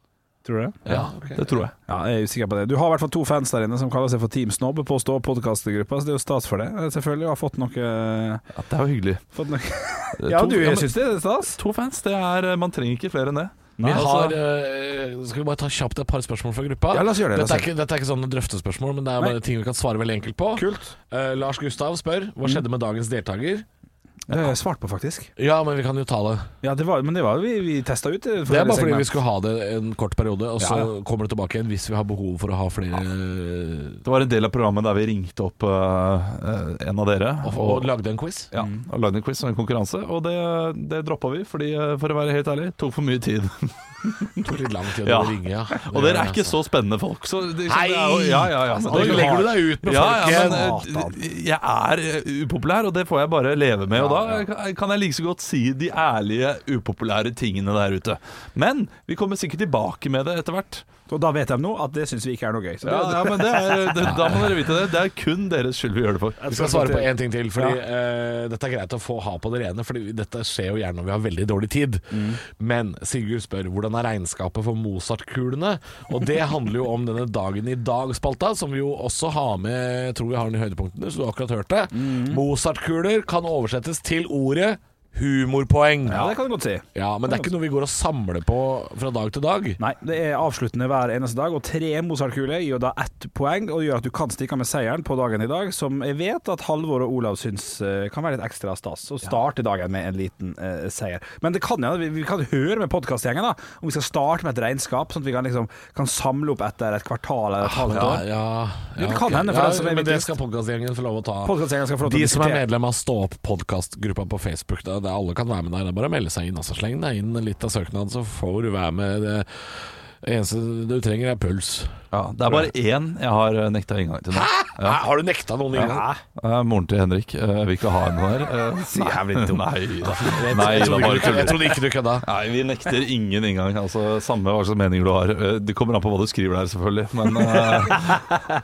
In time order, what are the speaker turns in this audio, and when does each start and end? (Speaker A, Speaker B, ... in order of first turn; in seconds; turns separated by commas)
Speaker A: 0.4-0.8, Speaker B: 0.8-1.6, Speaker C: 0.9-1.7, Speaker A: 1.9-8.4, Speaker C: 8.5-9.2, Speaker A: 9.3-11.6, Speaker C: 10.2-14.4, Speaker A: 13.8-14.1, Speaker B: 13.9-23.6, Speaker A: 16.9-17.7, Speaker A: 20.6-20.9, Speaker A: 24.3-25.3, Speaker B: 25.4-26.5, Speaker A: 26.6-29.1, Speaker B: 28.5-34.0, Speaker A: 30.6-30.9, Speaker C: 34.0-37.9, Speaker B: 37.4-38.5, Speaker C: 38.5-44.4, Speaker A: 38.5-38.8, Speaker B: 44.4-46.5, Speaker C: 45.0-60.8, Speaker B: 47.6-50.8, Speaker A: 48.7-51.2, Speaker A: 54.0-54.4, Speaker A: 61.1-64.2, Speaker C: 62.8-66.4, Speaker A: 66.4-67.8, Speaker B: 66.5-86.3, Speaker A: 72.1-72.4, Speaker A: 81.9-82.4, Speaker A: 86.1-86.8, Speaker B: 86.9-89.8, Speaker A: 89.8-108.2, Speaker B: 107.6-122.0, Speaker A: 109.0-110.3, Speaker A: 111.4-112.6, Speaker C: 122.1-125.0, Speaker B: 124.3-126.0, Speaker A: 125.7-126.2, Speaker C: 125.8-138.3, Speaker A: 128.9-129.7, Speaker B: 130.1-132.2, Speaker A: 137.7-138.2